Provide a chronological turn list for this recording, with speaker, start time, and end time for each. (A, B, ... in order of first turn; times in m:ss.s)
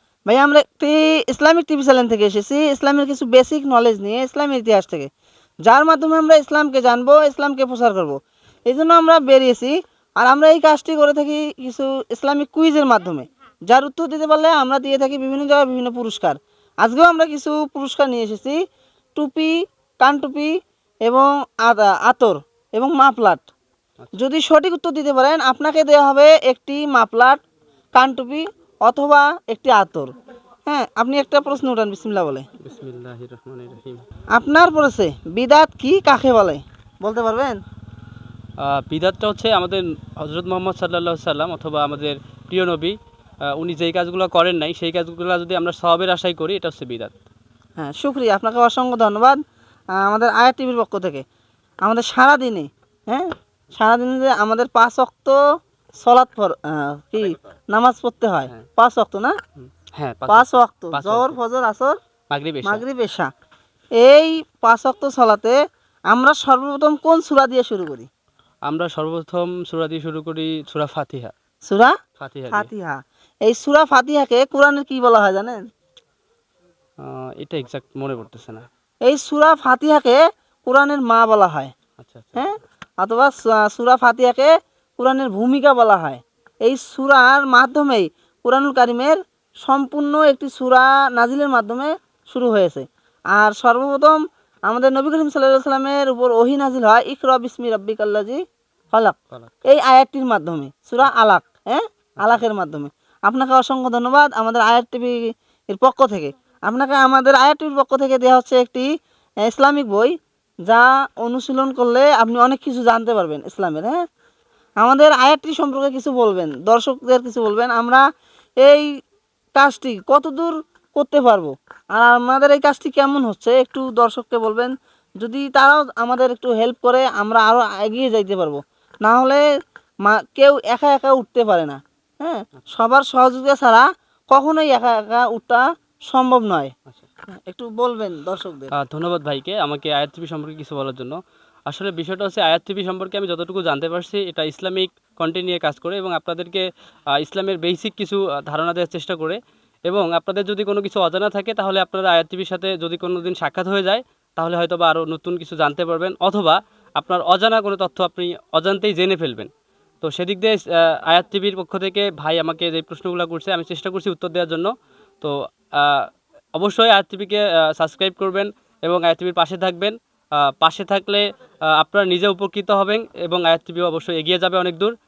0:00.3-0:05.1 A
0:05.6-0:18.6 A
0:19.1-0:20.5 A
0:21.0-0:23.5 A
0:24.1-0:27.4 A
0:27.9-0:30.1 A
0:30.7-0:32.5 A
0:32.6-0:34.0 B
0:34.3-0:37.6 A
0:38.6-0:43.0 B
0:43.5-0:47.1 B
0:47.8-0:49.4 A
0:50.0-0:51.2 A
0:51.8-0:55.4 A
0:56.0-0:59.3 A
0:59.6-1:01.4 B
1:00.3-1:02.0 A
1:02.3-1:02.8 B
1:02.6-1:03.3 A
1:04.0-1:05.6 A
1:06.1-1:08.1 A
1:08.7-1:11.3 B
1:11.7-1:12.0 A
1:12.2-1:12.7 B
1:12.5-1:15.6 A
1:17.0-1:18.6 B
1:19.0-1:21.7 A
1:22.0-1:22.4 B
1:22.4-1:48.9 A
1:49.4-1:50.1 A
1:50.7-1:54.0 A
1:54.8-1:58.0 A
1:58.6-1:58.9 A
1:59.6-2:09.4 A
2:10.0-2:16.7 A
2:17.4-2:18.7 A
2:18.7-2:21.2 B
2:21.7-2:39.5 B
2:40.0-2:51.2 B
2:51.7-2:54.9 B